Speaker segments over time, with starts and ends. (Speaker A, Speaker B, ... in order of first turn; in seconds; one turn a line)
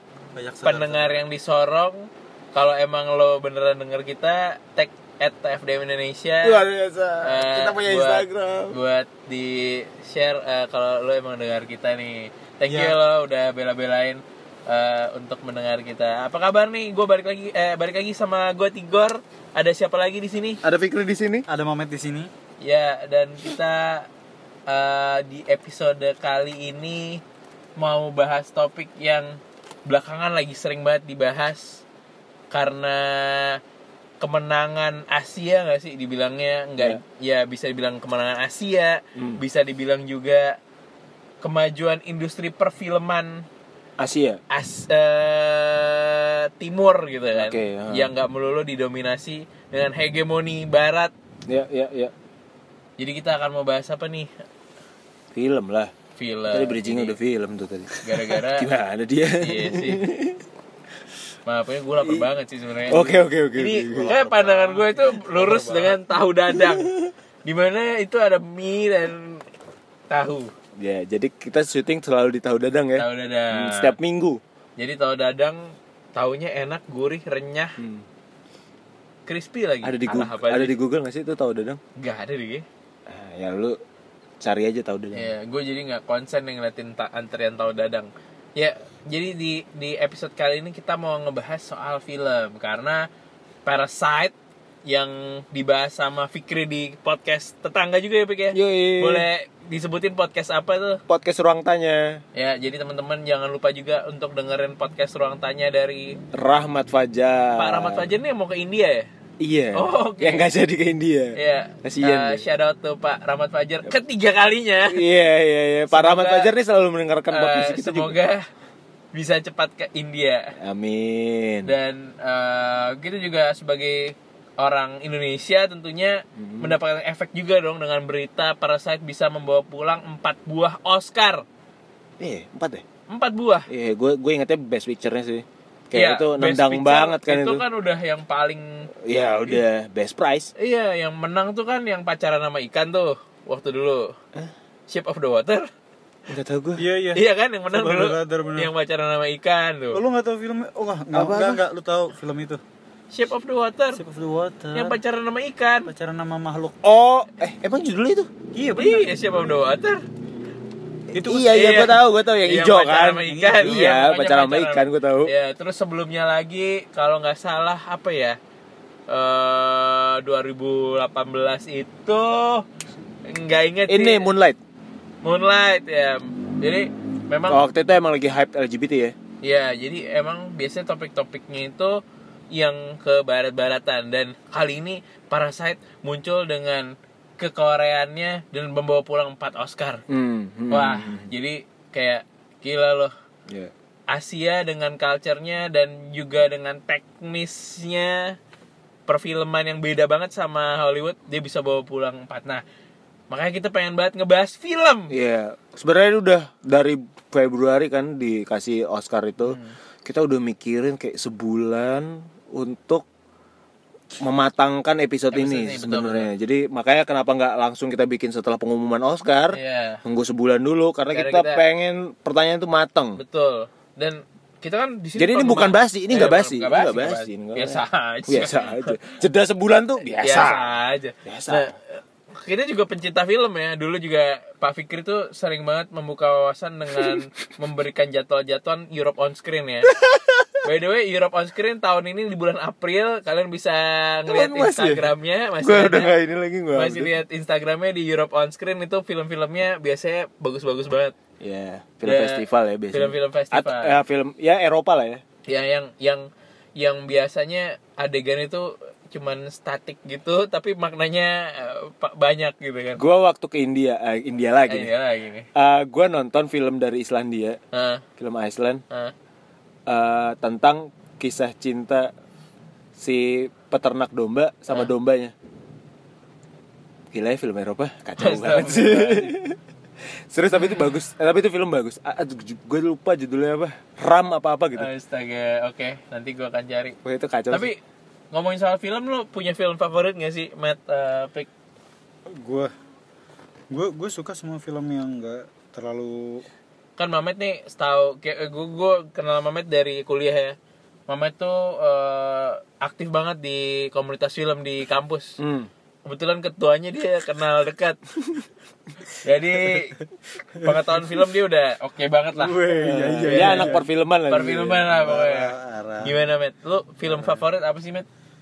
Speaker A: 0.3-1.2
Speaker B: 0.6-6.6
Speaker C: 6.4-8.8
Speaker B: 7.2-20.6
Speaker A: 12.7-13.0
Speaker C: 20.6-21.4
Speaker A: 21.5-22.3
Speaker B: 22.6-24.1
Speaker B: 24.7-27.2
Speaker B: 27.8-31.8
Speaker B: 32.5-33.6
Speaker B: 34.2-40.6
Speaker C: 39.2-39.4
Speaker B: 41.4-43.5
Speaker C: 44.0-44.4
Speaker B: 44.5-51.1
Speaker C: 47.3-48.1
Speaker C: 51.5-52.1
Speaker B: 53.0-54.3
Speaker C: 55.3-55.9
Speaker B: 56.2-57.2
Speaker C: 56.5-60.4
Speaker B: 58.0-58.7
Speaker B: 59.3-60.1
Speaker B: 61.5-69.5
Speaker C: 62.0-62.3
Speaker C: 62.9-64.1
Speaker A: 63.8-66.0
Speaker B: 70.1-70.5
Speaker C: 70.8-74.4
Speaker B: 73.0-73.9
Speaker B: 74.8-77.8
Speaker C: 77.8-78.0
Speaker B: 79.3-80.8
Speaker C: 79.8-81.8
Speaker B: 82.0-82.6
Speaker C: 83.1-83.8
Speaker C: 84.4-85.3
Speaker B: 85.1-93.1
Speaker B: 93.7-94.3
Speaker B: 94.8-101.0
Speaker C: 98.5-99.2
Speaker C: 101.1-102.2
Speaker B: 102.3-106.2
Speaker C: 106.3-108.1
Speaker B: 107.6-109.1
Speaker C: 109.4-112.4
Speaker B: 109.7-110.5
Speaker B: 111.3-115.0
Speaker C: 114.8-118.2
Speaker B: 115.9-116.5
Speaker B: 117.3-118.4
Speaker B: 119.1-120.5
Speaker C: 120.6-121.7
Speaker B: 121.6-131.4
Speaker C: 126.4-126.8
Speaker C: 132.2-132.8
Speaker B: 133.1-133.7
Speaker C: 133.7-137.6
Speaker B: 135.9-138.9
Speaker C: 139.0-140.5
Speaker B: 140.6-144.2
Speaker B: 144.9-145.7
Speaker C: 146.3-146.8
Speaker A: 146.8-148.7
Speaker B: 147.1-150.0
Speaker A: 149.9-152.6
Speaker C: 151.1-151.6
Speaker B: 153.1-154.0
Speaker A: 153.9-155.0
Speaker B: 154.7-155.9
Speaker A: 155.9-156.8
Speaker C: 156.8-158.3
Speaker A: 158.5-159.6
Speaker B: 158.7-160.0
Speaker A: 161.1-161.9
Speaker C: 161.1-165.3
Speaker B: 161.5-168.4
Speaker A: 163.2-163.9
Speaker B: 169.1-172.6
Speaker B: 173.2-174.3
Speaker C: 173.9-174.6
Speaker B: 175.2-177.6
Speaker C: 177.5-179.1
Speaker B: 179.4-182.0
Speaker B: 182.5-190.0
Speaker C: 190.1-191.3
Speaker B: 190.7-193.1
Speaker B: 194.1-198.4
Speaker B: 199.1-202.6
Speaker B: 203.3-205.1
Speaker C: 205.1-213.1
Speaker B: 209.4-209.8
Speaker C: 214.2-223.2
Speaker B: 215.3-216.3
Speaker B: 219.5-220.0
Speaker B: 221.1-221.6
Speaker B: 223.2-229.0
Speaker C: 225.2-231.7
Speaker B: 230.2-231.8
Speaker B: 232.3-239.9
Speaker C: 239.9-240.6
Speaker B: 240.6-246.1
Speaker C: 244.3-247.1
Speaker B: 246.7-251.1
Speaker C: 251.4-255.2
Speaker B: 252.1-253.9
Speaker B: 255.4-263.0
Speaker C: 263.0-264.9
Speaker B: 264.7-265.5
Speaker C: 265.5-267.6
Speaker B: 267.7-268.1
Speaker C: 268.2-268.8
Speaker C: 269.9-272.1
Speaker C: 273.0-275.3
Speaker C: 277.1-279.6
Speaker B: 278.2-279.3
Speaker C: 280.3-284.9
Speaker B: 284.8-287.0
Speaker C: 287.0-287.7
Speaker B: 287.5-287.8
Speaker B: 288.3-291.5
Speaker A: 292.3-292.7
Speaker A: 293.7-296.4
Speaker B: 297.0-300.6
Speaker B: 301.1-305.4
Speaker C: 305.4-305.7
Speaker B: 306.1-308.0
Speaker B: 309.1-310.0
Speaker B: 310.6-318.1
Speaker A: 312.3-313.8
Speaker C: 312.8-315.0
Speaker A: 314.9-316.2
Speaker A: 317.1-317.4